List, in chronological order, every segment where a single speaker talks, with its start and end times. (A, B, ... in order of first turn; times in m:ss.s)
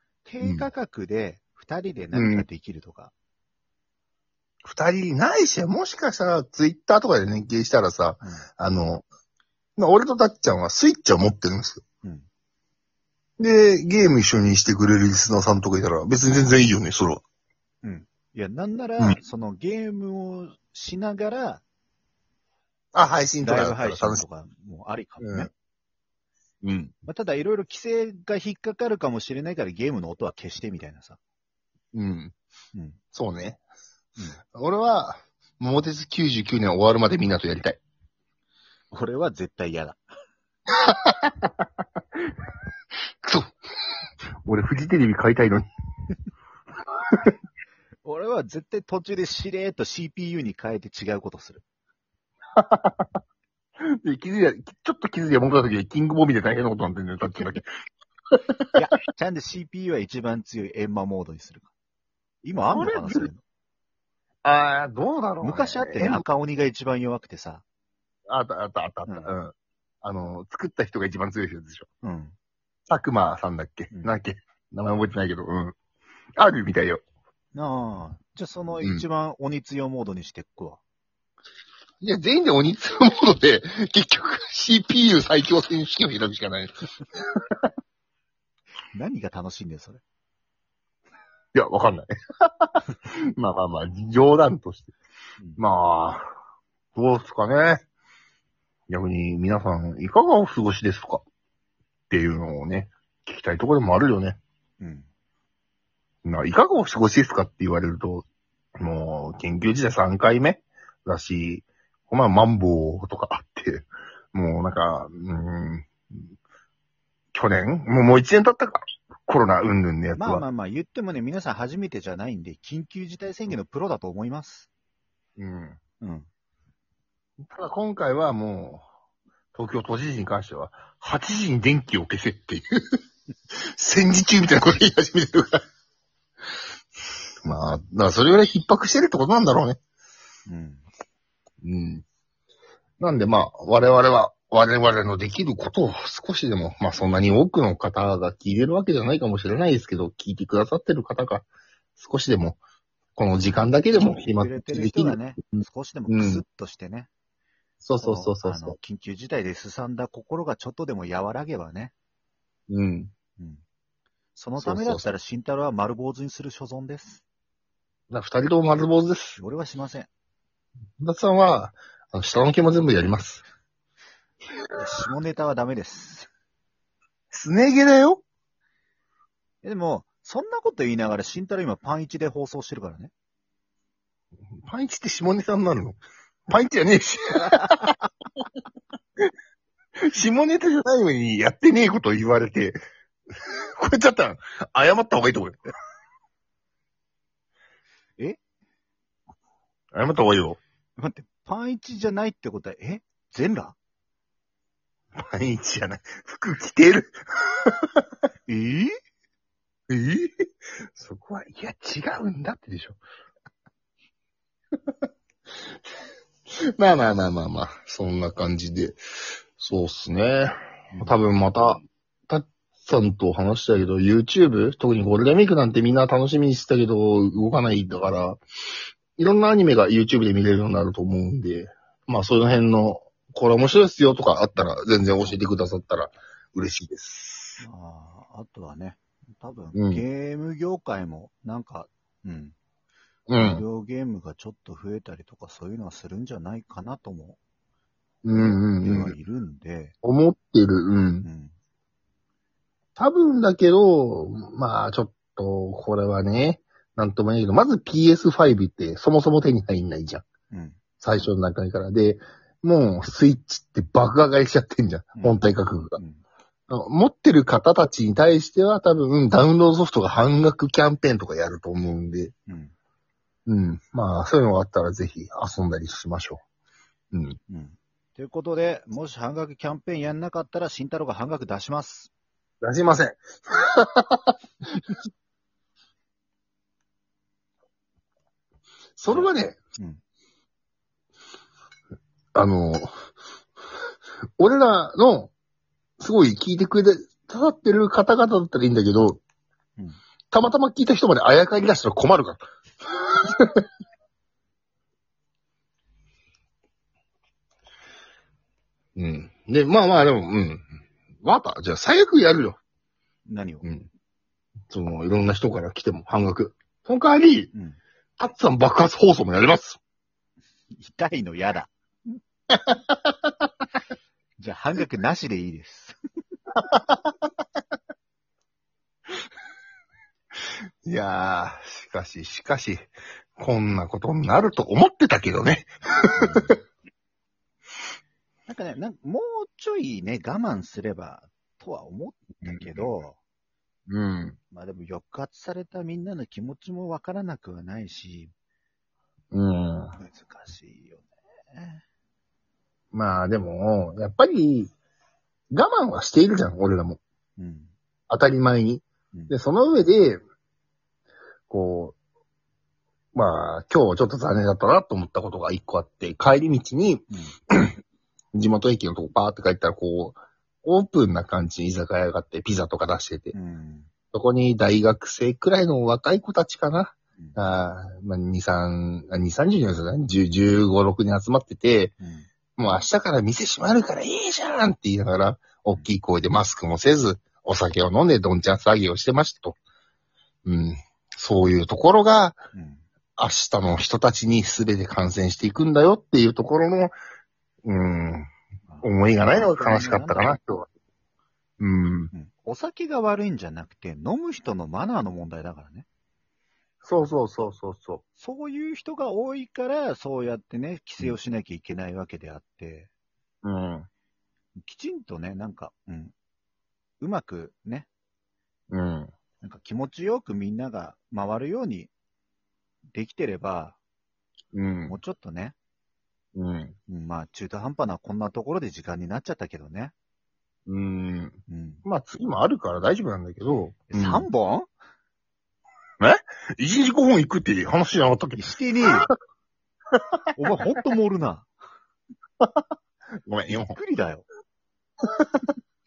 0:00.2-0:03.1 A
0:00.4-0:00.7 B
0:02.1-0:02.5 B
0:04.6-0:09.1 B
0:08.2-0:08.5 A
0:09.8-0:11.8 B
0:13.4-0:17.2 B
0:17.8-0:21.6 A
0:22.9-0:24.2 B
0:23.4-0:25.5 A
0:25.2-0:25.5 B
0:26.6-0:27.0 B
0:27.1-0:31.2 A
0:31.9-0:32.3 B
0:32.7-0:33.0 A
0:33.1-0:33.6 B
0:34.2-0:34.4 A
0:34.4-0:37.8 B
0:38.9-0:40.0 A
0:40.7-0:41.5 B
0:43.2-0:43.5 B
0:44.4-0:45.7 B
0:48.0-0:51.6 A
0:52.6-0:53.1 B
0:53.8-0:57.7 B
0:58.3-0:58.8 B
0:58.8-1:01.7 A
1:02.4-1:03.4 A
1:02.7-1:03.3 B
1:04.4-1:06.2 B
1:05.4-1:07.6 A
1:08.3-1:11.9 B
1:09.1-1:09.4 A
1:12.0-1:12.4 A
1:12.9-1:15.8 B
1:13.9-1:14.2 A
1:16.4-1:17.0 B
1:17.5-1:20.8 A
1:18.8-1:19.1 B
1:22.0-1:27.6 B
1:28.9-1:30.0 A
1:31.5-1:34.9 B
1:35.6-1:36.3 B
1:36.9-1:37.8 B
1:38.9-1:41.2 B
1:42.1-1:44.4 B
1:44.8-1:45.1 A
1:46.2-1:48.2 B
1:48.8-1:56.0 B
1:57.3-2:00.5 B
2:00.2-2:04.7 A
2:05.4-2:05.8 B
2:06.0-2:06.3 A
2:07.4-2:08.8 B
2:09.5-2:13.0 B
2:13.5-2:15.6 B
2:17.4-2:19.8 B
2:20.5-2:20.8 A
2:21.6-2:22.0 B
2:23.0-2:32.6 B
2:33.2-2:36.4 B
2:34.0-2:37.1 A
2:37.8-2:38.8 B
2:38.0-2:41.9 A
2:42.7-2:43.1 B
2:43.4-2:43.6 A
2:44.4-2:47.2 A
2:44.6-2:45.0 B
2:48.1-2:49.4 B
2:49.4-2:50.1 A
2:51.0-2:53.4 B
2:54.8-2:56.3 A
2:57.3-2:58.2 B
2:59.6-3:03.1 A
3:04.6-3:08.0 B
3:07.5-3:07.7 A
3:10.0-3:12.8 B
3:13.3-3:15.6 B
3:19.9-3:20.6 B
3:21.0-3:23.8 A
3:25.2-3:28.0 B
3:28.5-3:28.9 A
3:29.9-3:33.0 B
3:36.8-3:39.0 B
3:39.6-3:48.4 B
3:49.2-3:57.6 B
3:57.6-4:02.6 A
3:59.7-4:00.0 B
4:03.3-4:03.6 B
4:03.4-4:07.4 A
4:08.2-4:09.2 B
4:08.4-4:09.9 A
4:10.0-4:11.3 B
4:11.2-4:11.5 A
4:13.0-4:20.3 B
4:20.5-4:21.3 A
4:21.0-4:26.0 B
4:25.1-4:25.4 A
4:26.0-4:26.2 A
4:26.7-4:32.3 B
4:32.5-4:32.7 A
4:33.5-4:36.4 B
4:37.1-4:37.4 B
4:37.5-4:42.1 A
4:42.6-4:44.4 B
4:49.0-4:49.6 B
4:49.1-4:50.0 A
4:52.3-4:52.9 B
4:54.4-4:55.3 B
4:56.0-4:59.2 B
5:00.3-5:03.7 B
5:09.0-5:10.6 B
5:11.2-5:12.6 B
5:13.3-5:13.6 A
5:13.6-5:13.9 B
5:14.7-5:17.5 B
5:17.5-5:17.8 A
5:18.2-5:19.8 B
5:20.7-5:22.2 A
5:22.5-5:22.8 B
5:24.4-5:26.0 A
5:30.8-5:36.5 B
5:36.1-5:36.6 A
5:38.5-5:43.2 A
5:42.4-5:42.9 B
5:43.9-5:44.4 B
5:44.5-5:48.3 A
5:49.3-5:50.0 B
5:50.0-5:51.8 A
5:52.9-5:54.7 B
5:55.5-5:57.0 B
5:57.4-5:57.7 A
5:58.1-6:00.2 B
6:01.5-6:02.0 B
6:03.1-6:07.8 B
6:07.1-6:07.4 A
6:08.3-6:13.4 B
6:13.3-6:13.9 A
6:14.0-6:21.9 B
6:22.0-6:22.3 A
6:22.6-6:29.6 B
6:30.4-6:32.4 B
6:32.5-6:32.8 A
6:33.2-6:37.0 B
6:37.6-6:38.3 B
6:38.7-6:40.3 A
6:38.8-6:40.7 B
6:41.6-6:42.1 B
6:42.1-6:45.9 A
6:46.8-6:48.0 B
6:48.2-6:52.9 A
6:53.4-6:53.9 B
6:54.6-6:56.2 A
6:57.0-6:57.9 A
6:58.7-6:59.1 B
6:59.4-7:01.9 A
7:02.9-7:03.8 A
7:04.5-7:05.0 B
7:04.9-7:05.6 A
7:06.4-7:06.8 B
7:06.9-7:09.9 A
7:10.7-7:14.3 B
7:11.5-7:11.8 A
7:13.8-7:14.7 A
7:16.0-7:19.1 B
7:18.4-7:19.1 A
7:20.4-7:21.5 A
7:23.3-7:23.8 B
7:23.5-7:24.3 A
7:25.0-7:25.3 B